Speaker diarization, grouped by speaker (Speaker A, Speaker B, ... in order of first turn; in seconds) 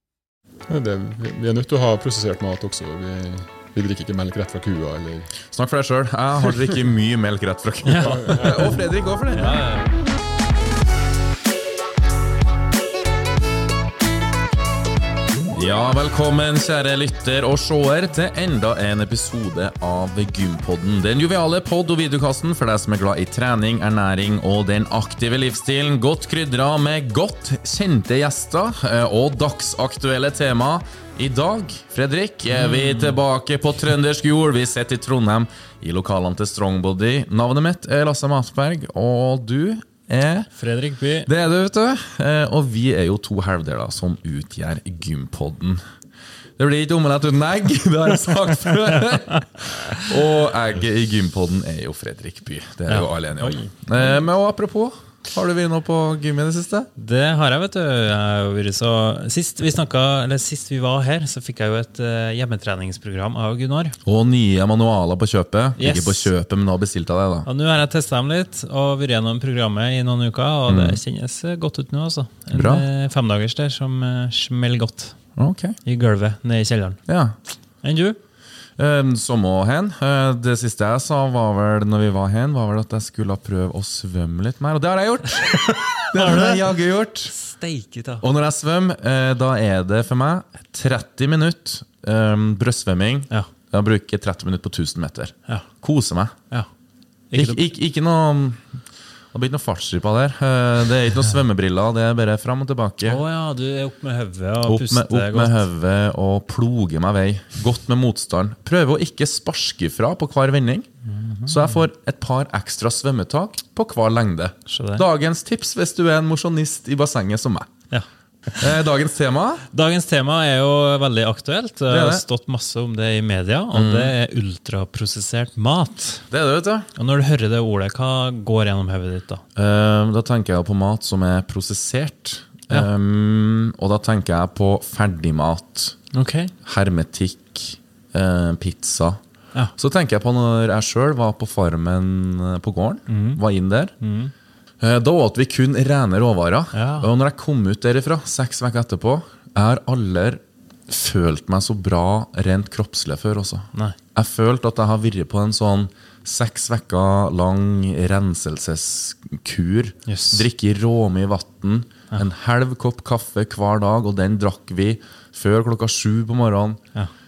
Speaker A: 0.7-5.3, 8.0-8.7
Speaker B: 5.5-9.6, 15.5-40.5, 41.3-45.8, 46.6-56.9, 64.0-67.5, 70.7-71.0, 72.5-72.9, 75.4-75.8, 77.1-77.4, 78.8-87.3, 88.2-96.4, 97.3-98.8, 99.3-103.2, 104.6-110.9, 111.5-117.7, 118.6-119.6, 121.9-122.2, 123.7-124.1, 126.3-126.9, 129.6-136.0, 136.7-139.2, 139.8-143.9, 144.8-166.8
Speaker C: 7.8-8.8, 9.3-9.9, 32.5-33.2, 40.6-41.3, 52.9-53.7, 57.0-64.0, 65.8-66.3, 67.5-75.2, 75.8-77.0, 77.8-78.2, 85.9-86.6, 87.3-88.2, 97.3-97.6, 103.1-105.6, 111.1-111.8, 114.7-115.0, 117.9-118.8, 119.7-126.3, 127.0-129.4, 136.1-136.5, 143.1-143.4, 144.0-144.3, 146.7-147.1, 160.1-160.4